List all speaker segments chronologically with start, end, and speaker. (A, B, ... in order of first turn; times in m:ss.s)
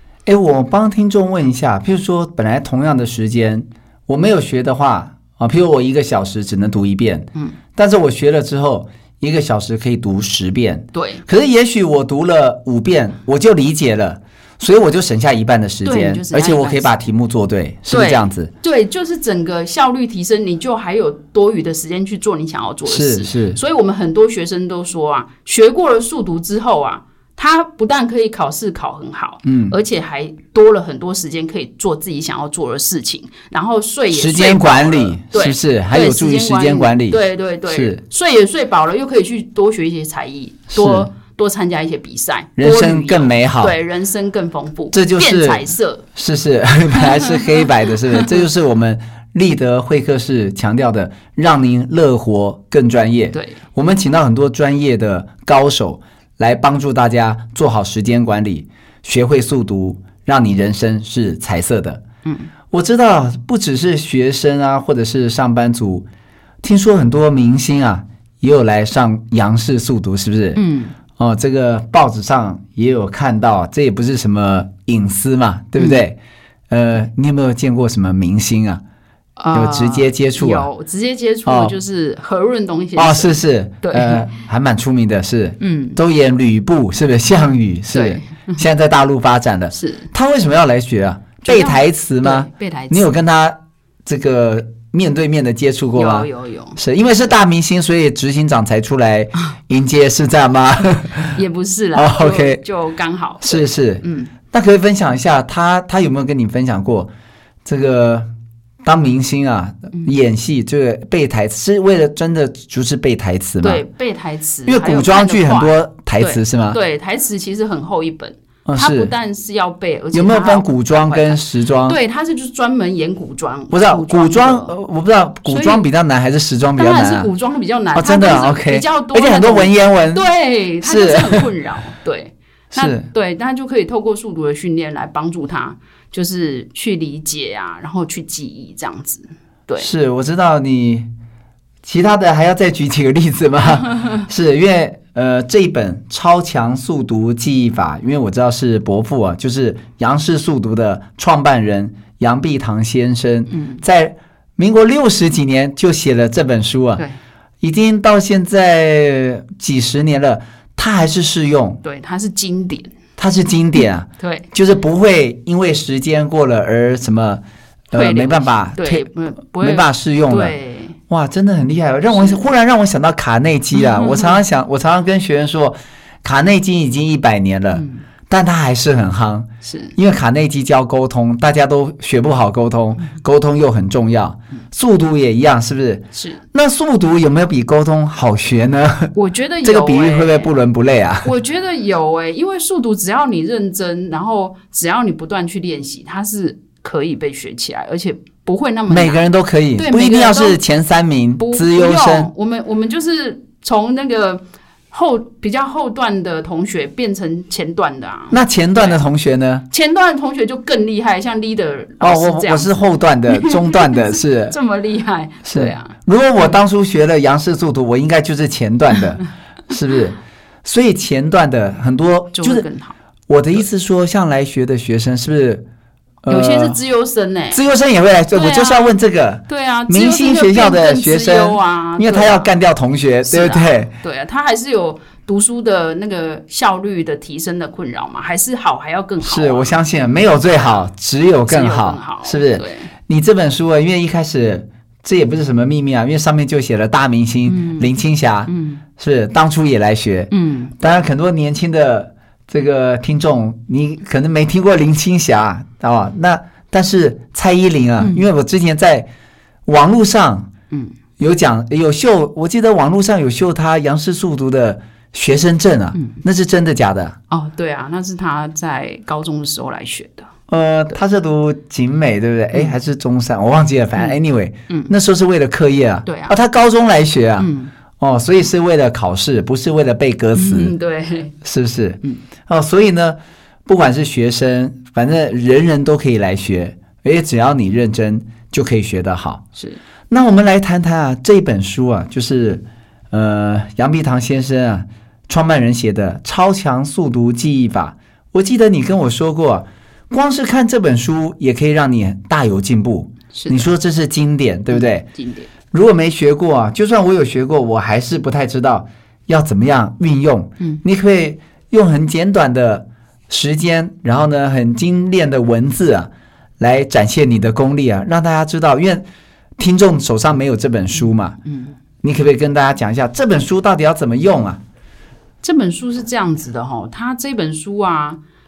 0:00.3-0:18.5 A
0:10.9-0:11.2 B
0:15.8-0:16.9 B
0:17.9-0:46.0 B
0:22.9-0:23.6 A
0:29.4-0:29.8 A
0:34.1-0:38.0 A
0:40.7-0:41.1 A
0:42.6-0:43.8 A
0:44.9-1:02.0 A
0:47.1-0:47.4 B
0:53.3-0:53.6 B
1:02.7-1:06.1 A
1:06.6-1:10.6 A
1:10.6-1:11.0 B
1:11.2-1:16.2 A
1:15.8-1:16.0 B
1:16.7-1:18.8 A
1:19.4-1:24.3 B
1:19.5-1:20.7 A
1:21.5-1:21.8 A
1:23.0-1:41.4 A
1:25.6-1:26.0 B
1:27.9-1:28.6 B
1:29.7-1:30.1 B
1:31.5-1:33.1 B
1:36.0-1:36.8 B
1:41.3-1:44.3 B
1:42.0-1:42.6 A
1:43.4-1:47.1 A
1:47.6-1:48.3 A
1:48.8-1:53.8 A
1:53.6-2:04.7 B
1:54.7-1:56.8 A
1:58.7-1:59.1 A
2:00.1-2:02.0 A
2:03.7-2:07.3 A
2:05.5-2:05.9 B
2:06.8-2:19.9 B
2:08.0-2:10.2 A
2:10.8-2:11.5 A
2:12.7-2:13.1 A
2:19.8-2:21.1 A
2:21.8-2:37.0 A
2:33.5-2:33.8 B
2:37.6-2:41.8 A
2:41.8-2:42.9 B
2:43.2-2:49.0 A
2:44.2-2:44.5 B
2:47.9-2:51.0 B
2:49.6-2:50.6 A
2:51.1-3:11.3 A
2:52.1-2:52.4 B
2:53.7-2:54.4 B
2:57.7-2:58.0 B
2:59.6-3:00.0 B
3:06.2-3:06.4 B
3:09.1-3:10.5 B
3:11.2-3:19.2 B
3:18.9-3:22.3 A
3:19.8-3:20.6 B
3:21.4-3:29.0 B
3:28.3-3:29.7 A
3:29.7-3:36.6 B
3:32.0-3:34.6 A
3:35.4-3:42.6 A
3:42.4-3:43.0 B
3:43.3-3:45.6 A
3:46.2-3:46.8 A
3:46.3-3:47.6 B
3:47.5-3:53.9 A
3:48.3-3:49.0 B
3:49.5-3:52.5 B
3:53.2-3:59.7 B
3:59.2-4:19.1 A
4:00.5-4:00.9 B
4:01.5-4:02.9 B
4:07.5-4:07.9 B
4:08.5-4:08.8 B
4:10.3-4:10.8 B
4:19.7-4:20.5 A
4:21.2-4:27.2 A
4:27.3-4:30.3 B
4:30.5-4:40.7 A
4:36.1-4:36.4 B
4:37.4-4:37.7 B
4:40.4-4:41.4 B
4:41.4-4:49.4 A
4:50.1-5:05.1 A
5:03.3-5:03.7 B
5:04.7-5:05.5 B
5:05.7-5:19.0 A
5:19.6-5:21.4 A
5:21.5-5:21.7 B
5:22.0-5:24.6 A
5:25.4-5:28.2 B